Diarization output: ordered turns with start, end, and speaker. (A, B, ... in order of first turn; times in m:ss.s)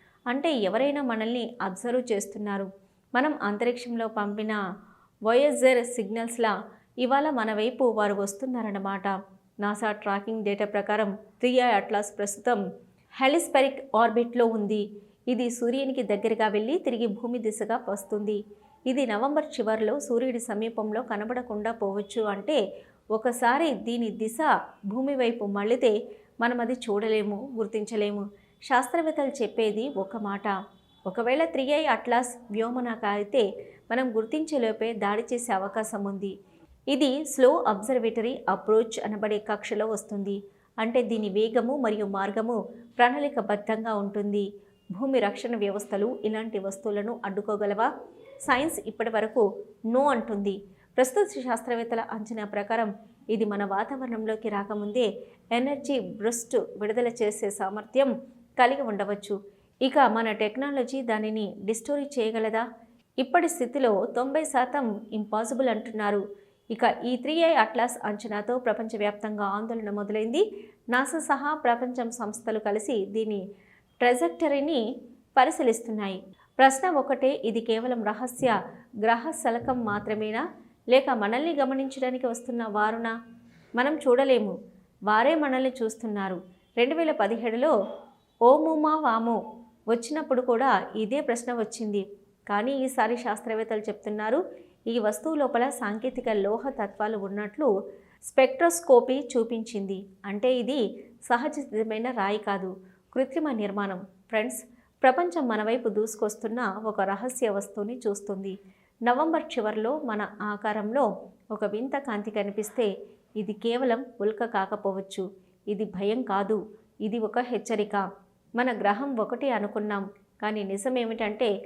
0:00.3-0:04.6 A
0:05.3-0:12.6 A
0:13.2-0:22.6 A
0:23.2-0:30.5 A
0:31.1-0:36.3 A
0:36.9-0:47.9 A
0:48.5-1:02.6 A
1:03.2-1:06.2 A
1:06.7-1:13.4 A
1:14.0-1:14.8 A
1:15.4-1:18.5 A
1:19.0-1:20.4 A
1:20.9-1:23.1 A
1:23.8-1:24.5 A
1:25.1-1:27.7 A
1:28.5-1:29.4 A
1:29.9-1:37.7 A
1:38.2-1:48.6 A
1:49.1-1:52.9 A
1:53.4-1:58.1 A
1:58.6-2:01.5 A